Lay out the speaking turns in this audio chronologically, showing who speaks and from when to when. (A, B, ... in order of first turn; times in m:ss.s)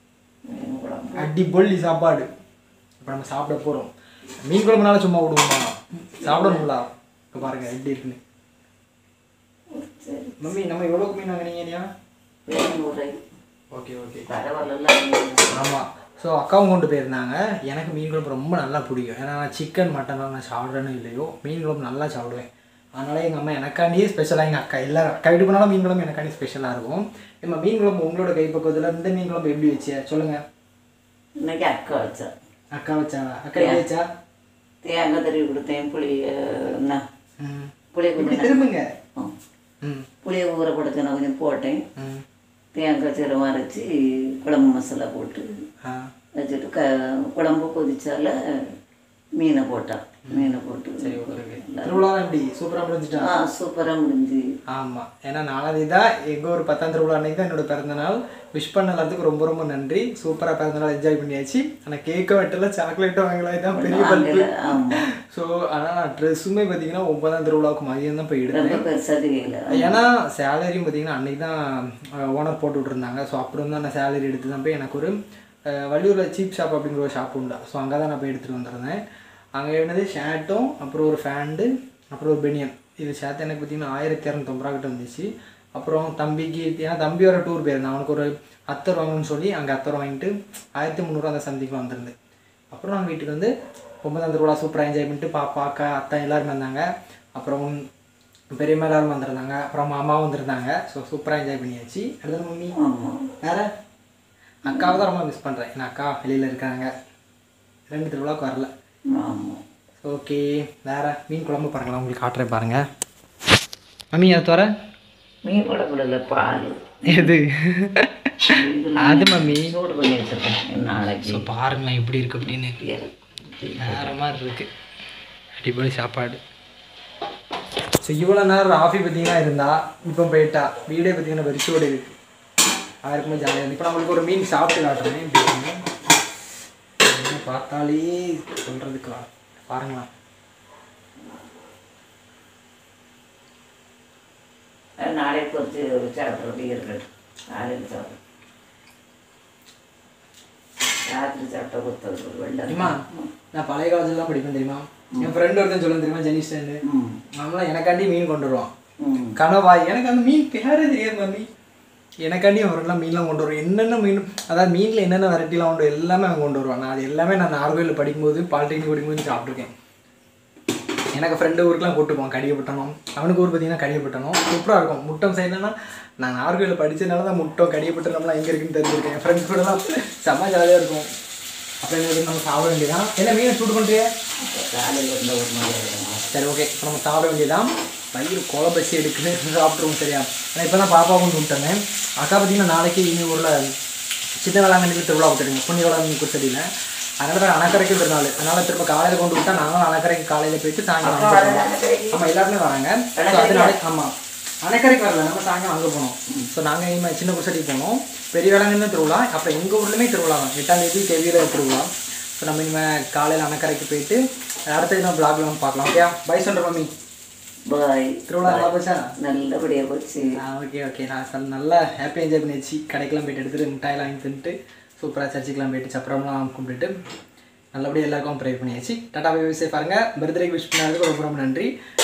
0:00.5-0:01.3 A
0:01.2-0:02.3 B
0:03.0-0:03.9 B
0:04.4-0:08.2 B
0:06.2-0:06.7 A
0:09.7-0:10.6 A
0:10.4-0:11.9 B
0:12.5-0:13.2 A
0:13.7-0:14.3 B
0:14.3-0:15.6 A
0:15.5-0:30.4 B
0:31.4-0:32.3 A
0:32.7-0:34.0 B
0:33.6-0:33.8 A
0:34.8-0:37.0 A
0:37.4-0:38.9 B
0:37.9-0:38.6 A
0:40.2-0:41.8 A
0:42.0-0:42.2 B
0:42.7-0:43.9 A
0:44.4-0:45.5 A
0:45.8-0:46.1 B
0:46.4-0:48.3 A
0:49.4-0:52.0 A
0:50.3-0:53.3 B
0:53.2-0:54.4 A
0:54.7-1:08.8 B
1:03.8-1:05.0 A
1:08.5-1:10.0 A
1:09.7-1:15.2 B
1:15.7-1:19.0 B
1:19.6-1:32.1 B
1:32.7-1:33.5 B
1:34.0-1:37.8 B
1:38.6-1:42.8 B
1:42.8-1:43.3 A
1:43.4-1:43.7 B
1:44.6-1:46.9 B
1:44.7-1:45.0 A
1:47.9-1:48.7 B
1:49.1-1:49.6 A
1:50.0-1:52.8 B
1:54.1-1:54.7 B
1:55.4-1:57.3 A
1:57.1-1:59.8 B
1:58.5-2:01.5 A
2:01.2-2:02.8 B
2:02.8-2:04.1 A
2:03.8-2:04.7 B
2:05.6-2:06.4 B
2:08.0-2:12.1 B
2:13.0-2:15.8 B
2:17.0-2:20.1 B
2:25.0-2:28.2 A
2:31.1-2:33.3 A
2:32.7-2:33.0 B
2:33.5-2:36.8 B
2:36.9-2:37.2 A
2:37.4-2:38.7 B
2:39.0-2:39.4 A
2:39.4-2:41.5 B
2:42.2-2:49.7 B
2:51.1-3:01.1 B
3:01.8-3:04.1 B
3:04.4-3:06.3 A
3:06.3-3:13.6 B
3:14.4-3:16.7 B
3:17.2-3:36.9 B
3:21.0-3:22.2 A
3:23.2-3:23.8 A
3:37.7-3:40.3 A
3:38.3-3:39.1 B
3:40.4-3:46.9 B
3:47.7-3:51.7 B